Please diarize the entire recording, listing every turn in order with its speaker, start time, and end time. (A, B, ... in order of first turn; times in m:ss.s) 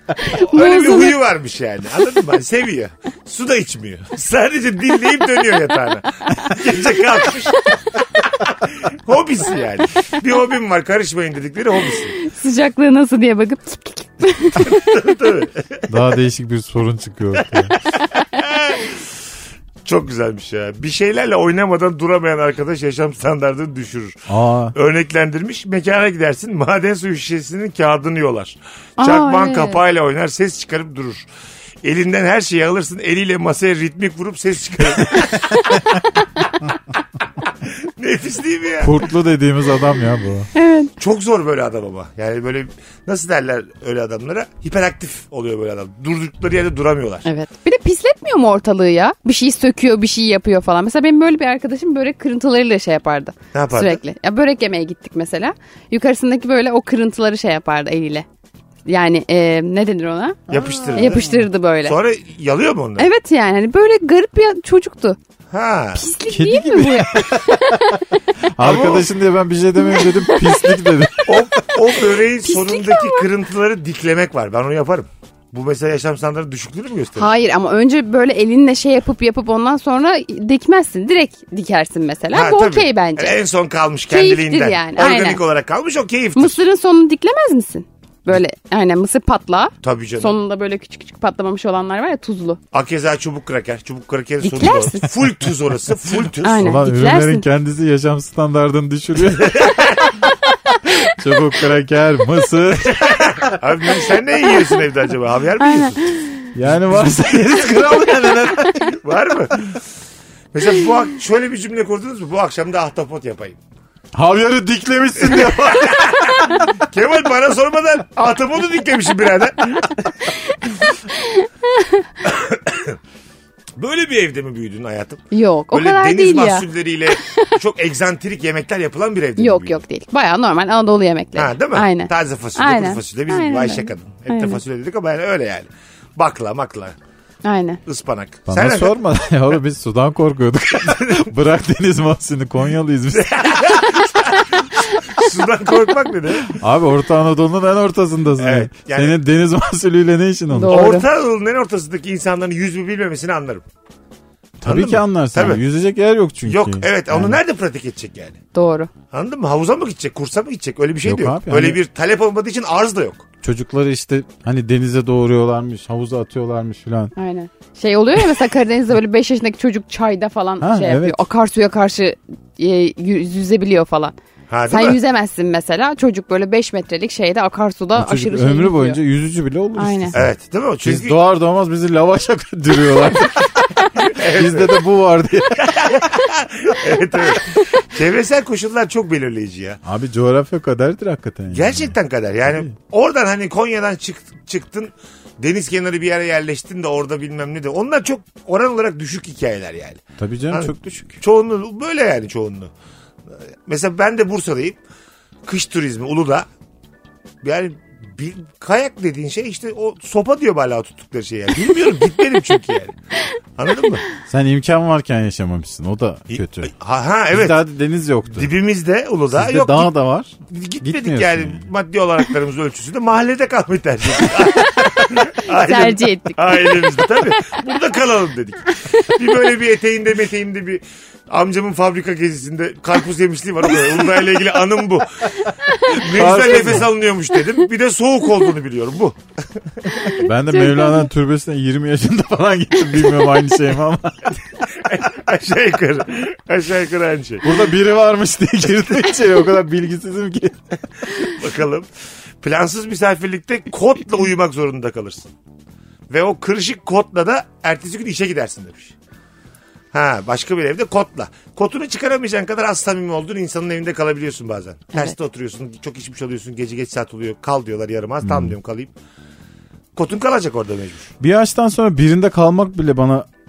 0:00.2-0:01.2 A
0:00.2-0:12.2 B
0:12.1-0:15.0 A
0:14.6-0:15.9 B
0:15.9-0:17.7 C
0:18.2-0:19.0 B
0:19.8-0:31.2 B
0:24.3-0:24.7 C
0:29.0-0:29.8 A
0:31.8-0:36.0 B
0:35.5-0:35.8 A
0:37.6-0:38.9 B
0:38.8-0:40.5 C
0:40.5-0:40.9 A
0:41.0-0:47.2 B
0:47.2-0:58.2 A
0:53.5-0:54.0 B
0:58.8-1:00.4 A
1:00.5-1:01.4 C
1:00.5-1:03.1 B
1:00.9-1:02.0 A
1:03.0-1:05.2 A
1:05.5-1:06.0 B
1:06.0-1:08.0 A
1:06.3-1:11.6 C
1:08.6-1:09.1 B
1:09.9-1:10.7 A
1:11.2-1:17.3 B
1:12.4-1:13.3 A
1:17.2-1:23.4 A
1:22.3-1:26.6 B
1:24.1-1:25.4 A
1:26.4-1:32.6 A
1:29.8-1:30.4 B
1:32.7-1:36.8 B
1:34.4-1:35.1 A
1:36.4-1:37.4 A
1:36.6-1:40.0 C
1:39.3-1:40.1 B
1:41.1-1:43.6 C
1:42.8-1:46.1 B
1:45.6-1:46.5 A
1:46.5-1:49.0 C
1:48.9-1:49.8 B
1:50.5-1:53.6 B
1:54.1-1:56.6 C
1:55.2-2:00.1 B
2:00.5-2:02.1 A
2:02.2-2:03.0 B
2:03.8-2:09.8 B
2:05.3-2:07.5 A
2:09.4-2:14.6 A
2:11.4-2:16.9 B
2:17.4-2:17.8 A
2:17.8-2:19.0 B
2:18.5-2:23.4 C
2:20.9-2:21.2 B
2:23.1-2:26.6 B
2:26.5-2:30.9 C
2:28.4-2:29.2 B
2:30.5-2:31.0 A
2:30.7-2:33.6 B
2:34.6-2:37.4 C
2:34.6-2:35.6 B
2:36.4-2:38.4 B
2:38.5-2:38.9 A
2:39.1-2:43.2 B
2:41.0-2:41.8 C
2:43.4-2:47.1 C
2:47.2-2:54.2 A
2:50.6-2:51.2 C
2:54.5-2:55.0 B
2:54.7-2:59.0 A
2:58.0-3:00.3 C
2:59.8-3:00.1 A
3:00.1-3:01.2 B
3:00.8-3:06.0 C
3:04.0-3:04.8 B
3:05.6-3:09.8 B
3:09.8-3:11.9 C
3:11.5-3:22.7 B
3:20.2-3:21.2 C
3:23.5-3:24.8 B
3:25.4-3:26.5 B
3:27.4-3:32.9 B
3:33.6-3:34.0 B
3:34.3-3:36.7 C
3:36.3-3:37.6 B
3:37.3-3:38.5 C
3:38.3-3:39.9 B
3:39.3-3:41.6 C
3:40.5-3:59.2 B
3:44.4-3:47.5 A
3:55.7-3:56.0 A
3:56.0-3:56.9 C
4:00.1-4:01.1 A
4:00.1-4:04.3 C
4:04.7-4:07.4 B
4:07.4-4:10.6 C
4:11.2-4:11.9 B
4:12.4-4:15.3 B
4:16.1-4:18.9 B
4:19.9-4:28.9 B
4:28.2-4:28.6 C
4:30.0-4:31.1 B
4:31.2-4:33.3 C